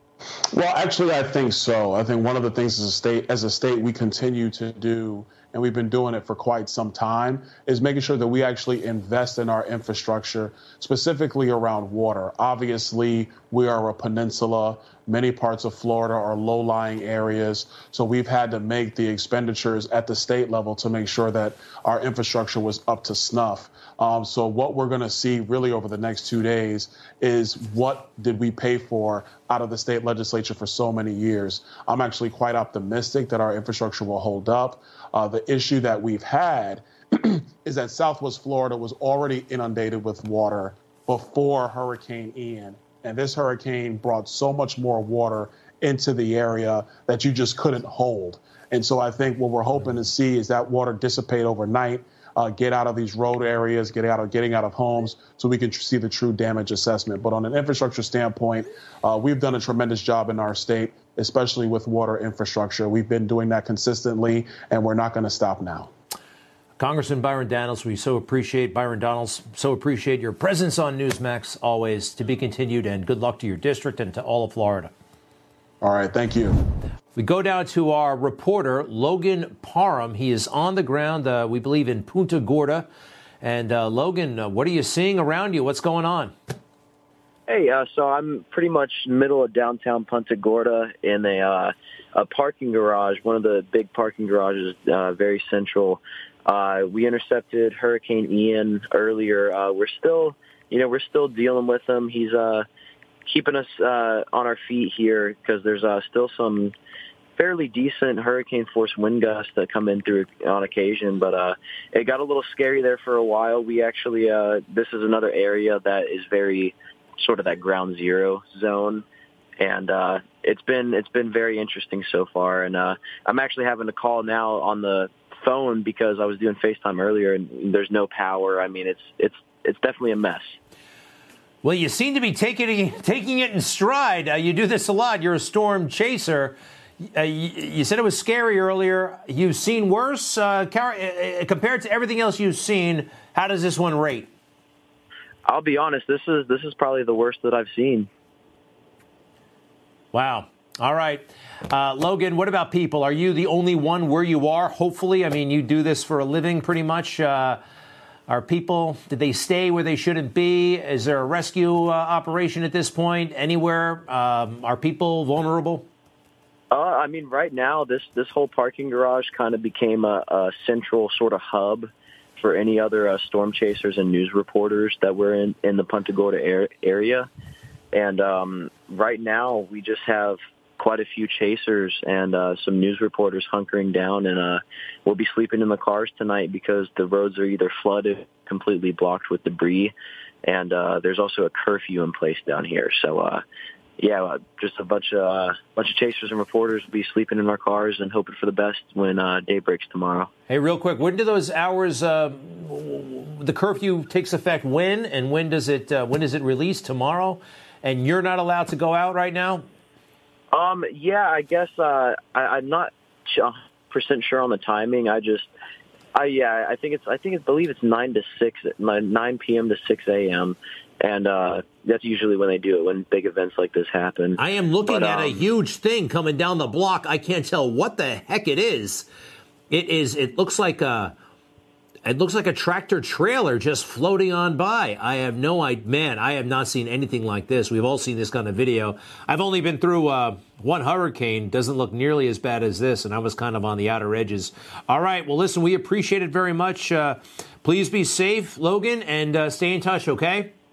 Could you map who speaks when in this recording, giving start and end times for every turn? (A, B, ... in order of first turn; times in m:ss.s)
0:00.5-1:05.9 A
1:06.8-1:14.9 B
1:15.8-1:16.6 A
1:17.1-1:22.9 B
1:23.4-1:26.3 B
1:27.5-1:42.6 C
1:43.2-1:46.7 C
1:47.4-1:59.0 C
1:59.6-2:10.6 C
2:11.6-2:24.3 B
2:25.4-2:28.1 C
2:30.1-2:37.6 B
2:38.3-2:45.8 B
2:46.7-2:57.3 C
2:57.9-3:09.9 C
3:10.4-3:13.4 C
3:14.0-3:20.3 C
3:20.5-3:29.6 B
3:30.5-3:35.5 C
3:36.1-3:45.4 C
3:44.4-3:49.0 B
3:49.7-3:51.1 B
3:52.0-4:10.5 B